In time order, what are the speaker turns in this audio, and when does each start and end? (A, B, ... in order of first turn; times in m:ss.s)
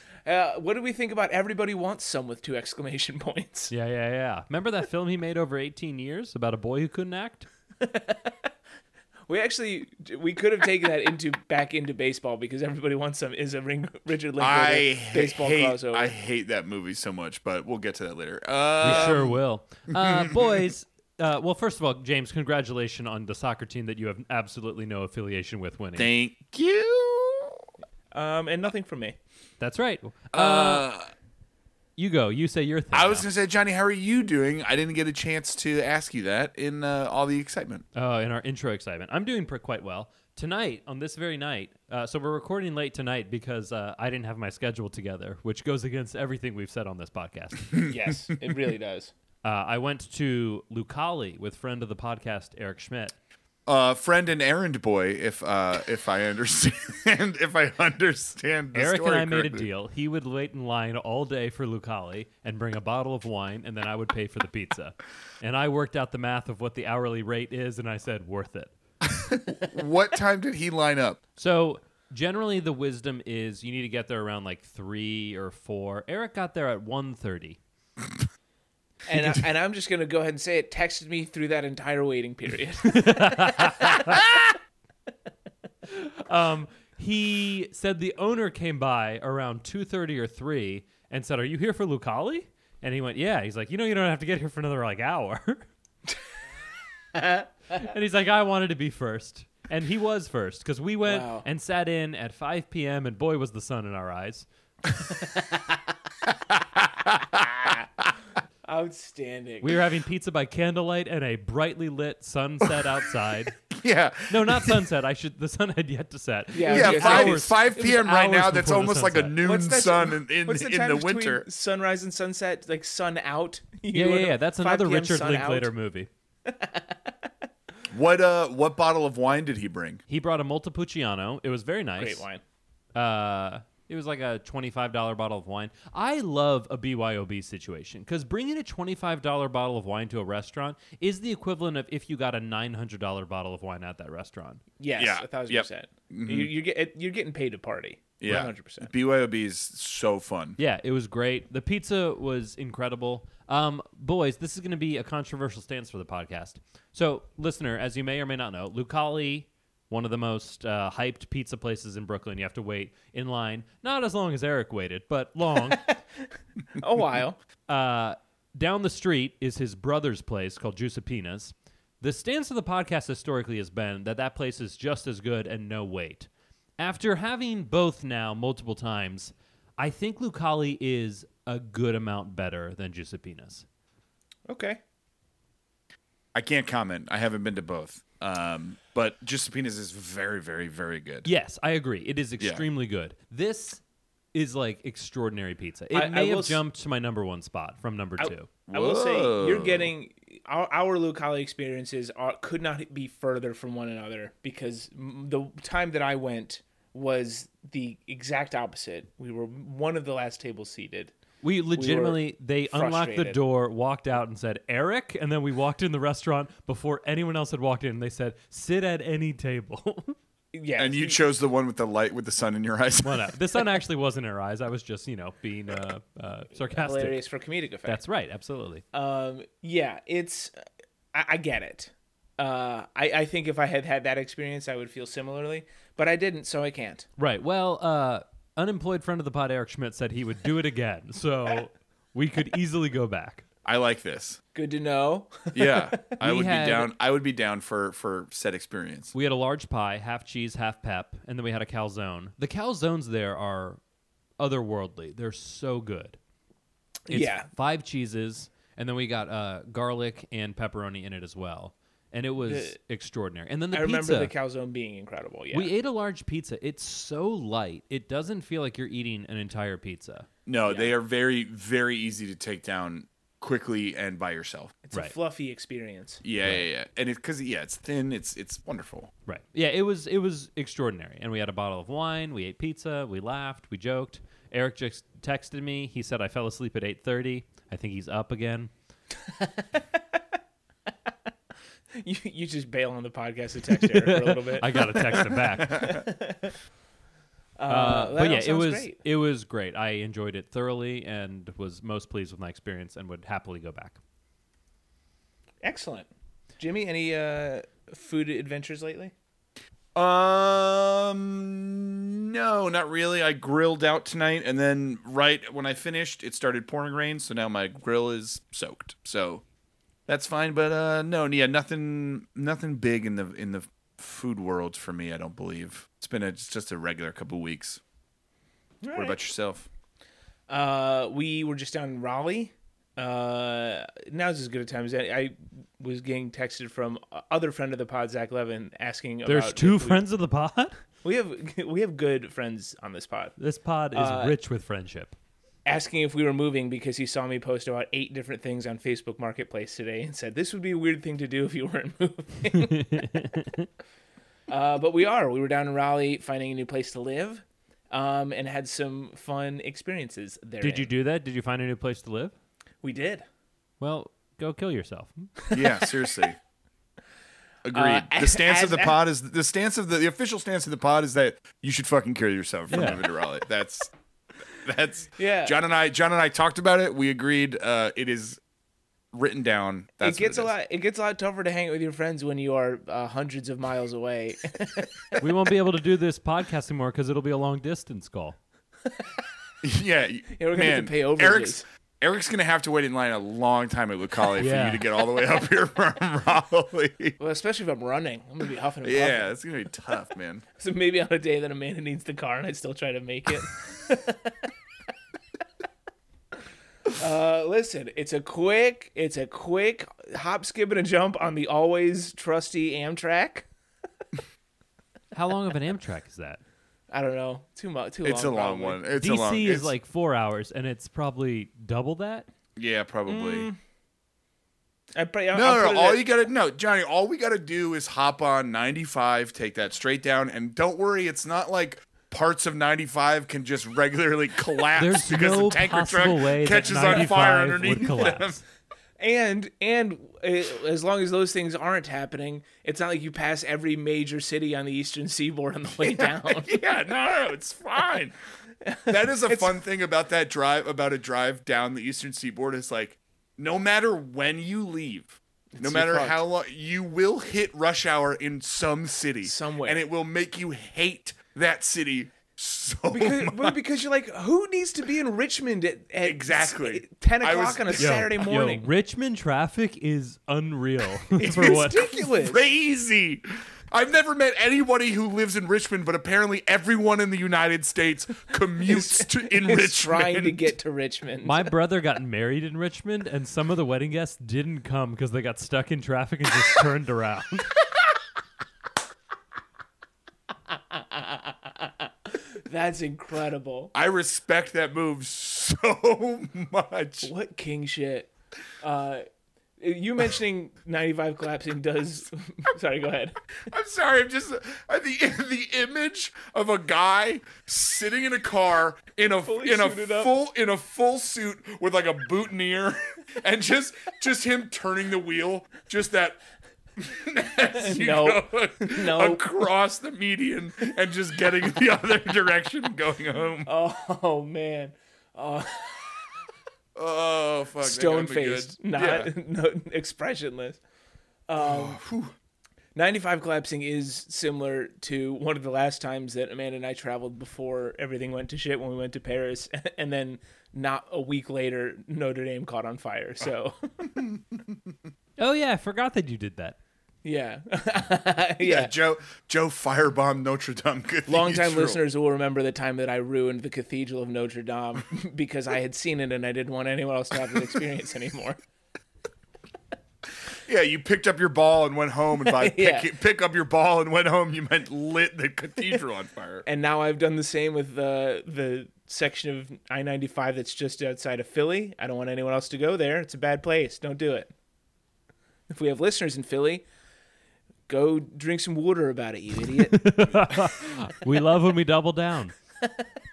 0:00.2-0:03.7 A
0:03.7-0:07.5 B
0:07.8-0:08.5 A
0:09.3-0:16.1 A
0:14.4-0:19.4 C
0:18.8-0:26.1 B
0:18.8-0:19.1 A
0:19.9-0:20.6 C
0:26.0-0:27.6 C
0:28.1-0:29.2 A
0:29.6-0:30.9 B
0:30.3-0:31.1 C
0:32.0-0:33.3 B
0:32.9-0:37.8 C
0:37.9-0:47.8 B
0:47.8-0:49.1 A
0:49.4-0:53.1 B
0:53.7-0:59.6 C
0:58.7-1:08.7 B
1:09.0-1:11.2 C
1:11.4-1:17.6 B
1:19.1-1:24.4 A
1:22.8-1:24.3 B
1:25.9-1:35.7 B
1:37.1-1:37.4 A
1:37.7-1:44.5 B
1:41.0-1:41.4 A
1:46.5-1:48.0 C
1:48.6-1:49.8 A
1:49.6-1:53.6 B
1:53.7-1:54.8 C
1:54.3-1:59.4 B
1:56.5-1:57.5 A
1:56.7-2:01.4 C
1:59.4-2:05.7 A
2:03.9-2:06.1 B
2:06.4-2:07.1 A
2:07.9-2:10.0 C
2:10.1-2:12.2 B
2:12.0-2:12.4 A
2:12.9-2:24.6 B
2:24.8-2:28.9 A
2:25.0-2:26.5 C
2:28.2-2:30.6 C
2:30.6-2:45.9 B
2:46.7-2:47.4 A
2:47.7-3:03.6 B
3:04.5-3:04.8 A
3:06.3-3:11.3 C
3:11.2-3:13.8 B
3:14.3-3:18.5 B
3:15.9-3:16.6 A
3:18.2-3:31.1 A
3:18.7-3:19.9 C
3:31.4-3:40.2 B
3:31.8-3:33.4 A
3:40.5-3:41.2 A
3:40.8-3:43.3 C
3:43.0-3:47.2 B
3:46.7-3:48.0 A
3:47.8-3:48.8 B
3:48.9-3:57.1 A
3:57.2-4:03.4 B
4:03.6-4:04.4 C
4:04.5-4:06.2 A
4:05.5-4:09.1 C
4:06.2-4:06.9 B
4:09.1-4:13.8 B
4:14.4-4:16.2 B
4:17.1-4:17.5 A
4:17.1-4:24.3 B
4:22.4-4:22.7 A
4:23.7-4:25.7 A
4:25.5-4:30.3 B
4:30.4-4:34.8 C
4:30.6-4:30.9 A
4:34.8-4:36.2 A
4:36.2-4:39.1 C
4:39.2-4:48.7 B
4:49.2-4:50.2 A
4:52.0-4:56.5 A
4:53.8-4:56.0 B
4:55.6-4:56.0 C
4:57.6-4:59.0 A
4:57.7-5:04.0 B
5:05.6-5:06.1 A
5:06.6-5:09.1 A
5:09.9-5:19.4 C
5:20.1-5:27.8 C
5:28.8-5:29.2 A
5:28.9-5:29.7 C
5:30.5-5:40.0 A
5:39.2-5:40.8 B
5:41.0-5:43.4 A
5:43.4-5:45.1 B
5:43.9-5:44.4 A
5:45.6-5:53.1 A
5:52.5-5:53.7 B
5:54.5-6:00.9 A
6:00.6-6:02.3 B
6:02.8-6:03.2 A
6:03.8-6:05.3 B
6:05.4-6:06.0 A
6:05.5-6:06.4 C
6:07.6-6:13.9 C
6:07.7-6:09.0 A
6:12.7-6:13.0 B
6:14.6-6:18.4 C
6:15.2-6:15.6 A
6:19.1-6:20.5 C
6:20.0-6:25.2 A
6:25.2-6:28.4 B
6:29.6-6:37.2 C
6:30.4-6:31.6 A
6:34.4-6:34.8 B
6:37.2-6:39.3 A
6:38.8-6:40.4 C
6:40.6-6:44.5 A
6:46.9-6:53.5 A
6:55.1-6:56.4 B
6:56.9-6:58.8 A
6:58.0-6:59.7 C
6:59.0-7:02.3 B
7:02.6-7:03.5 C
7:03.1-7:03.6 A
7:04.9-7:06.1 A
7:05.3-7:18.4 C
7:14.8-7:18.4 B
7:16.7-7:17.0 A
7:19.0-7:26.6 A
7:25.8-7:28.1 C
7:28.6-7:29.6 A
7:28.9-7:43.6 C
7:35.5-7:36.2 A
7:39.2-7:39.8 A
7:42.9-7:48.7 A
7:46.0-7:48.0 C
7:47.8-7:52.0 B
7:51.2-7:52.4 A
7:51.2-8:00.5 C
7:58.6-8:01.5 A
8:01.2-8:07.5 B
8:10.7-8:13.7 A
8:13.7-8:17.1 C
8:17.0-8:18.1 A
8:18.6-8:19.0 A
8:19.6-8:23.3 A
8:23.5-8:36.2 C
8:29.2-8:30.1 A
8:36.8-8:43.5 C
8:37.6-8:39.4 A
8:43.4-8:46.1 A
8:46.7-8:49.1 C
8:47.6-8:50.6 A
8:51.3-8:51.8 A
8:51.4-8:52.1 C
8:52.7-9:03.9 A
9:04.0-9:04.7 C
9:05.2-9:06.6 B
9:07.0-9:08.7 A
9:08.4-9:11.8 C
9:11.1-9:18.4 A
9:20.3-9:26.4 C
9:22.2-9:22.9 A
9:26.4-9:34.3 A
9:35.5-9:36.6 A
9:37.7-9:40.1 A
9:39.6-9:42.3 B